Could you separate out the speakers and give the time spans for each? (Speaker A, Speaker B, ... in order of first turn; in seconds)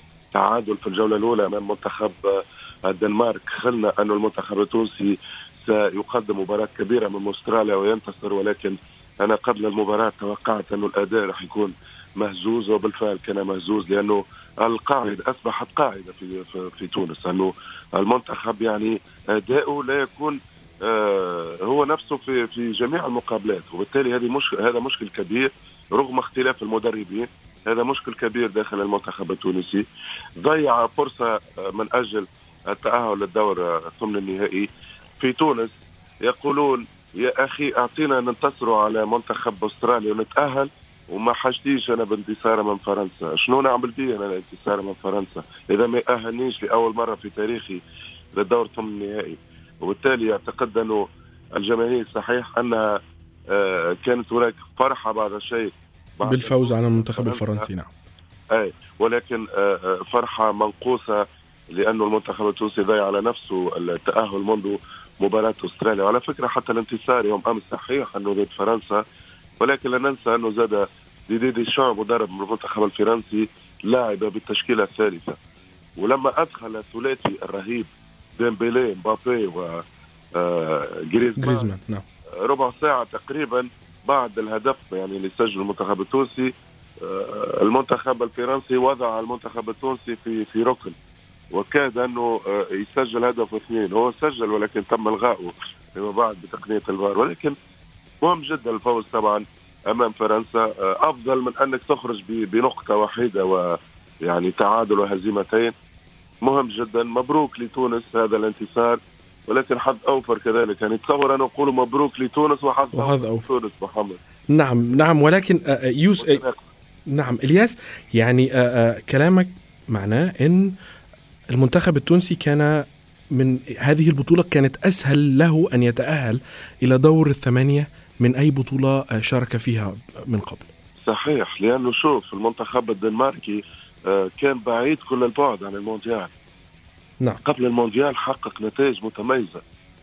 Speaker A: 0.3-29.8, 30.4-34.7, 35.2-35.7, 36.2-47.8, 48.4-57.6, 58.5-69.0, 69.6-75.3, 76.0-79.8, 80.3-81.7, 82.4-90.9, 91.5-97.5, 98.2-105.7, 106.4-114.2, 116.2-116.6, 131.1-136.3, 137.4-139.6
Speaker B: 56.2-57.9, 81.4-82.0, 112.9-113.5, 114.5-116.4, 117.1-120.7, 121.5-130.7